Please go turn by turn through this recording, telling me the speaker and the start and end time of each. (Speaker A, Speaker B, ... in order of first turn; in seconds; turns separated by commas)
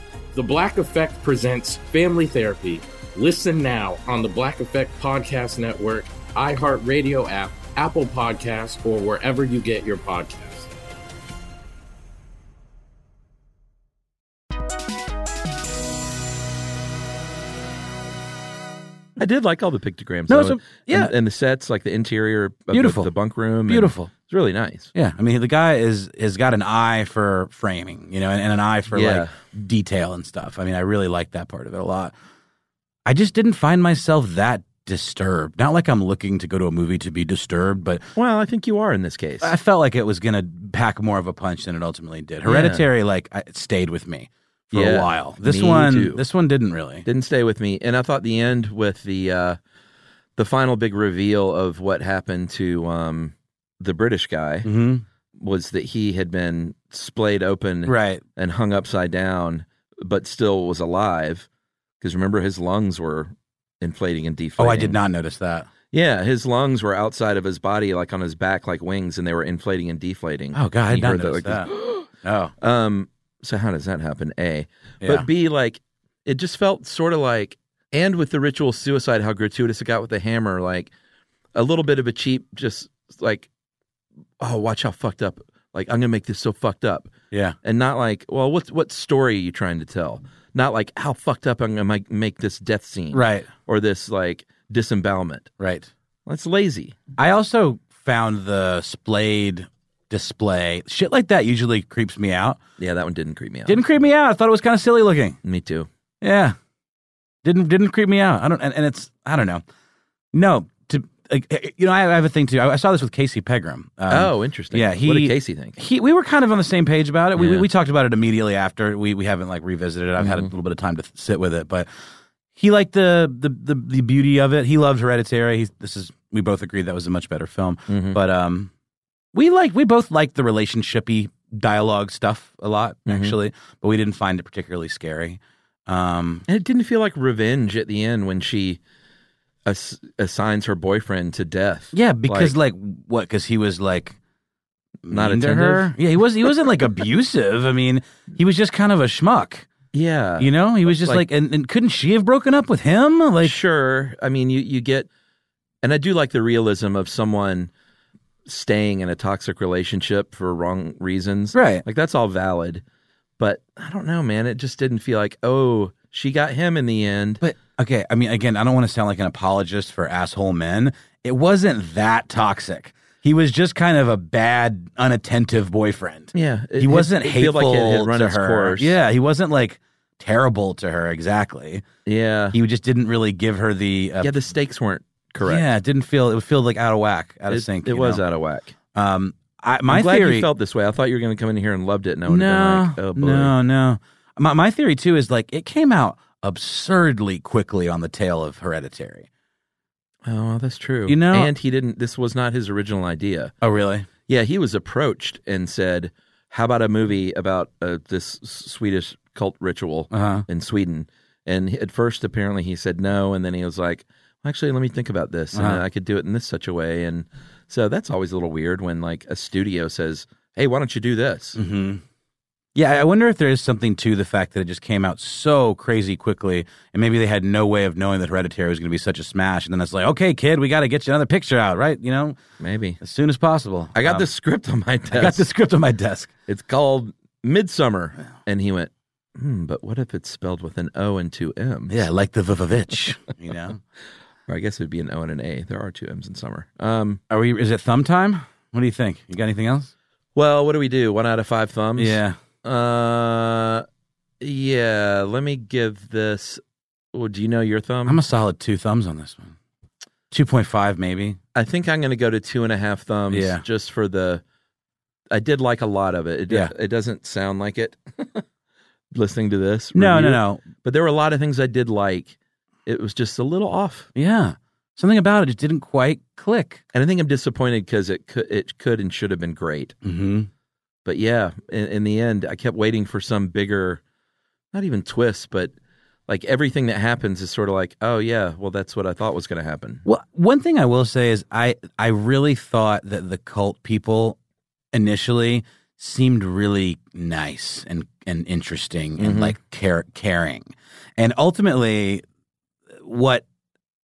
Speaker A: 0.3-10.7, Speaker B: 19.2-24.9, Speaker C: 20.3-21.1, Speaker C: 22.7-23.1, Speaker C: 23.7-24.1, Speaker C: 24.9-32.1, Speaker B: 28.9-29.3, Speaker C: 33.0-38.0, Speaker B: 38.1-39.5, Speaker C: 39.4-47.0, Speaker B: 42.5-42.8, Speaker B: 44.7-46.2, Speaker B: 47.0-49.6, Speaker B: 50.4-54.7, Speaker C: 54.6-55.0, Speaker B: 55.4-61.5, Speaker C: 57.9-58.2, Speaker B: 62.0-65.0, Speaker C: 64.6-65.7, Speaker B: 65.9-72.1, Speaker C: 70.5-71.7, Speaker C: 72.2-72.5, Speaker B: 72.6-80.9, Speaker B: 81.5-83.5, Speaker B: 84.4-87.1, Speaker B: 87.6-95.5, Speaker C: 93.1-93.5, Speaker C: 95.6-95.9, Speaker B: 96.2-97.0, Speaker C: 97.2-102.6, Speaker B: 102.8-103.8, Speaker C: 103.7-105.4, Speaker B: 105.4-105.9, Speaker C: 106.2-106.5, Speaker C: 107.4-109.6, Speaker C: 110.3-121.9, Speaker B: 114.1-115.8, Speaker B: 117.3-117.7, Speaker B: 120.2-120.5, Speaker C: 122.5-128.7, Speaker B: 127.9-128.2, Speaker C: 129.3-136.4, Speaker B: 133.1-133.3, Speaker B: 136.5-138.8, Speaker B: 139.7-142.5, Speaker C: 141.9-144.2, Speaker C: 145.1-149.7, Speaker B: 145.1-145.9, Speaker B: 149.9-151.2, Speaker C: 150.4-153.6, Speaker B: 153.4-155.1, Speaker B: 155.8-157.7, Speaker B: 158.4-162.8, Speaker C: 161.5-161.8, Speaker B: 163.4-167.4, Speaker C: 167.4-181.8, Speaker B: 176.3-178.9, Speaker B: 182.0-182.6, Speaker C: 182.5-184.3, Speaker B: 184.2-185.7, Speaker C: 185.4-188.2, Speaker B: 187.5-188.7, Speaker C: 188.9-190.5, Speaker B: 189.9-193.5, Speaker C: 192.3-199.3, Speaker B: 200.2-203.5, Speaker C: 201.1-201.5, Speaker C: 203.6-204.1, Speaker B: 204.3-221.6, Speaker C: 210.1-210.4, Speaker C: 215.5-215.8, Speaker C: 221.6-222.0, Speaker C: 222.7-232.4, Speaker B: 232.6-233.0, Speaker C: 233.0-234.2, Speaker B: 233.9-235.4, Speaker C: 235.1-236.3, Speaker B: 236.5-242.0, Speaker C: 241.9-243.8, Speaker B: 244.5-247.2, Speaker C: 247.3-249.9, Speaker B: 250.3-253.8, Speaker C: 252.0-252.4, Speaker B: 254.4-256.6, Speaker B: 257.1-258.2, Speaker C: 258.1-259.6, Speaker C: 260.3-261.4, Speaker B: 261.5-264.4, Speaker C: 263.3-263.6, Speaker B: 265.3-268.4, Speaker B: 269.1-274.1, Speaker C: 269.9-270.6, Speaker C: 274.1-276.8, Speaker B: 276.9-279.9, Speaker C: 280.0-280.5, Speaker B: 281.0-284.0, Speaker B: 284.7-285.7, Speaker B: 286.3-290.0, Speaker C: 290.0-294.4, Speaker C: 294.9-302.2, Speaker B: 299.2-299.5, Speaker C: 302.9-303.4